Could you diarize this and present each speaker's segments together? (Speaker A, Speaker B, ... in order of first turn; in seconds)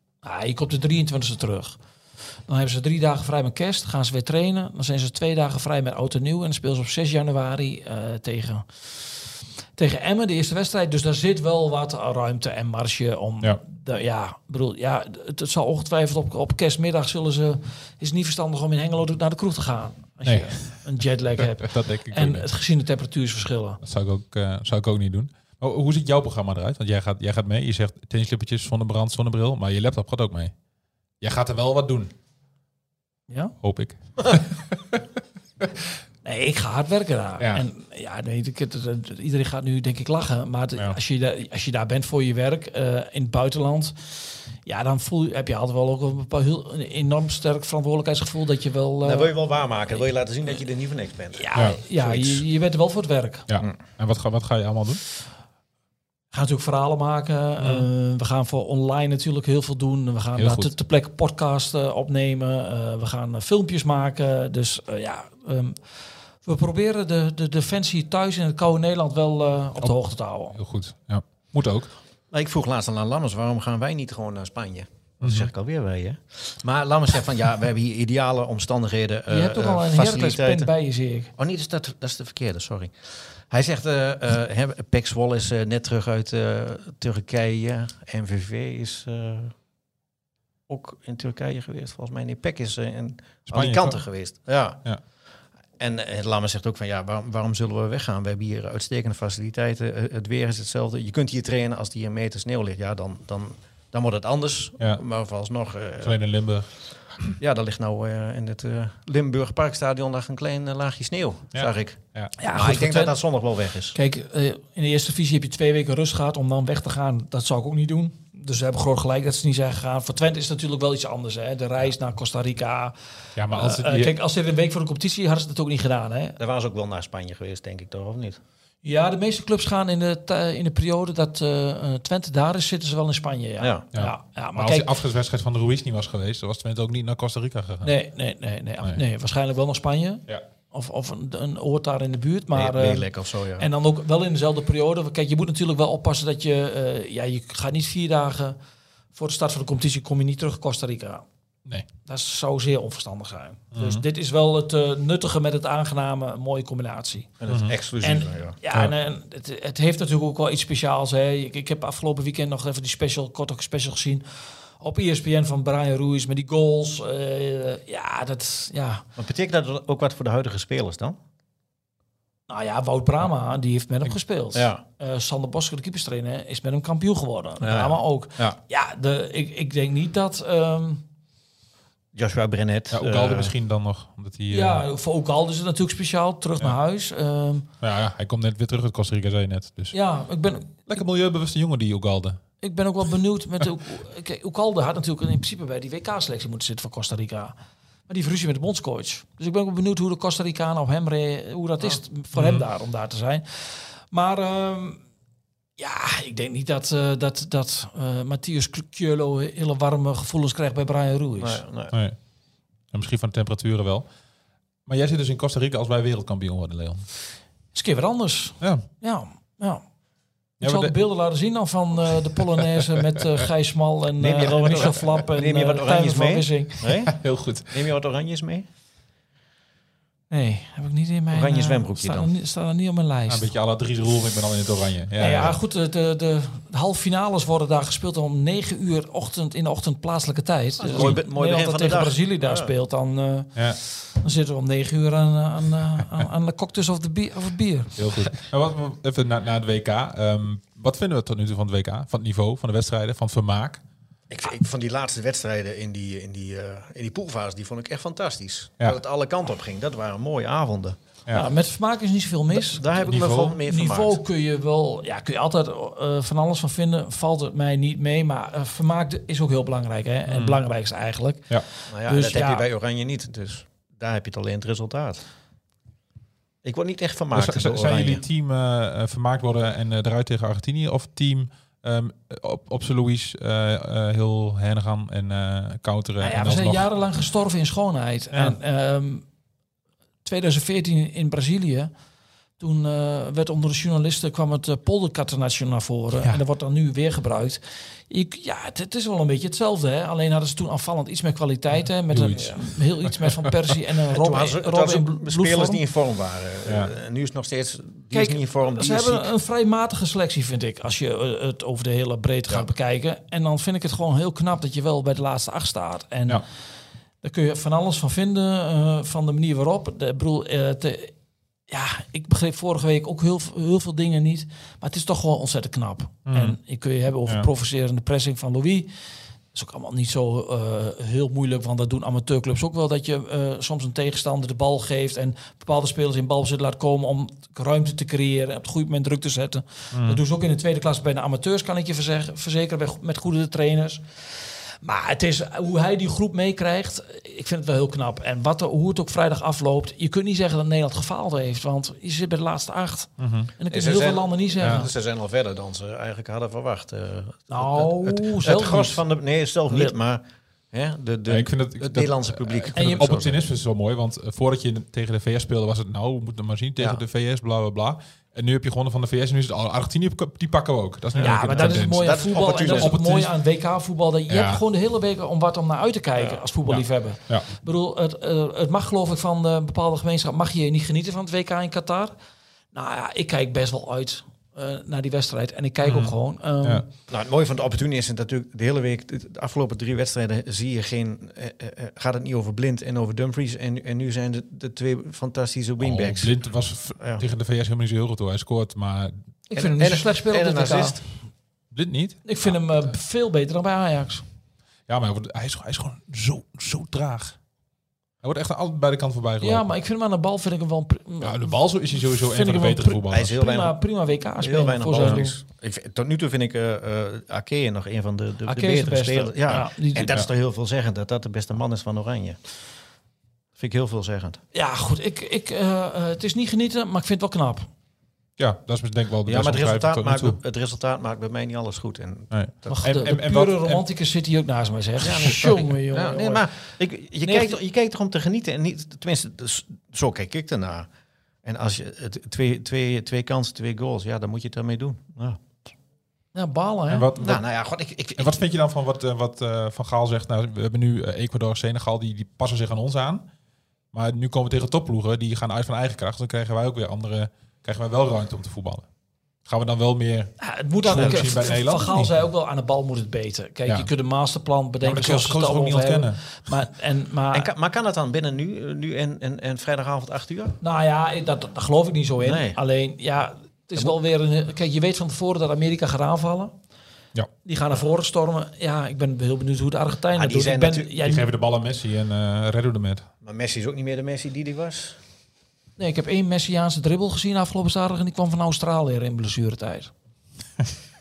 Speaker A: 0.2-1.8, 2.5-23.8, 33.3-33.5, 36.2-49.4, 51.4-53.5, 56.3-65.8, 66.4-70.6, 79.3-81.3, 112.4-113.2, 113.9-122.9, 123.5-126.4, 128.8-134.9, 137.8-148.6, 149.2-151.2, 152.1-157.3, 158.0-164.2, 164.8-169.1, 172.5-181.0, 184.5-187.7, 189.9-190.9, 192.6-197.6, 198.1-205.0, 205.8-211.6, 217.7-219.8, 220.6-226.8, 230.3-233.5, 235.2-248.2, 261.3-272.6, 286.2-289.2, 290.2-291.9, 292.6-305.8, 308.1-316.4, 317.2-321.1, 321.7-328.9, 329.5-354.9, 357.5-359.0, 359.7-359.9, 362.8-363.2, 371.2-382.1, 382.7-386.9, 399.5-401.0, 402.2-404.2, 409.4-415.4, 418.5-420.2, 424.5-427.7, 432.7-436.5, 437.2-437.5, 446.3-447.1, 460.4-467.5, 470.6-476.5, 477.4-481.3, 485.8-489.9
Speaker B: 20.2-22.5, 23.8-30.5, 31.2-32.1, 33.6-35.0, 53.5-55.0, 57.6-57.9, 60.4-60.7, 70.5-71.9, 75.2-75.5, 93.5-94.0, 106.0-106.7, 111.5-112.3, 123.4-124.2, 133.9-137.9, 153.7-154.0, 157.5-157.7, 182.9-184.8, 187.8-189.9, 190.9-192.4, 202.3-202.6, 211.9-212.2, 212.9-214.1, 214.9-217.1, 218.6-218.9, 220.6-221.0, 227.1-227.7, 233.3-235.6, 240.9-241.2, 248.0-253.8, 263.1-263.6, 270.3-270.6, 277.3-286.8, 288.3-288.6, 302.1-303.4, 306.7-306.9, 326.3-326.6, 339.9-340.2, 353.2-353.5, 361.3-373.4, 374.3-374.6, 376.7-377.5, 385.8-386.8, 395.8-399.2, 401.7-402.9, 404.9-407.4, 408.2-409.7, 411.2-413.4, 428.4-430.4, 432.3-433.9, 446.9-447.4, 448.2-453.3, 453.9-458.9, 459.5-462.1, 464.8-466.5, 481.0-483.1
Speaker C: 49.0-52.4, 72.3-80.7, 81.4-89.5, 90.7-94.8, 95.8-106.2, 107.4-112.0, 112.5-114.0, 126.4-128.4, 133.6-133.9, 142.5-143.7, 157.4-158.6, 169.2-171.2, 174.5-174.8, 177.6-178.6, 182.1-183.5, 211.4-211.9, 224.2-228.7, 231.3-232.3, 240.8-242.7, 254.3-261.0, 262.5-264.2, 271.9-275.2, 276.6-278.2, 304.1-309.3, 353.7-363.4, 371.1-372.9, 376.2-376.4, 387.1-396.3, 397.0-397.2, 399.5-401.0, 413.1-413.8, 414.4-422.4, 423.6-424.4, 429.2-432.8, 435.0-440.9, 441.4-445.4, 447.2-448.4, 460.9-461.5, 467.3-470.6, 472.2-472.6, 480.1-481.0, 483.2-485.0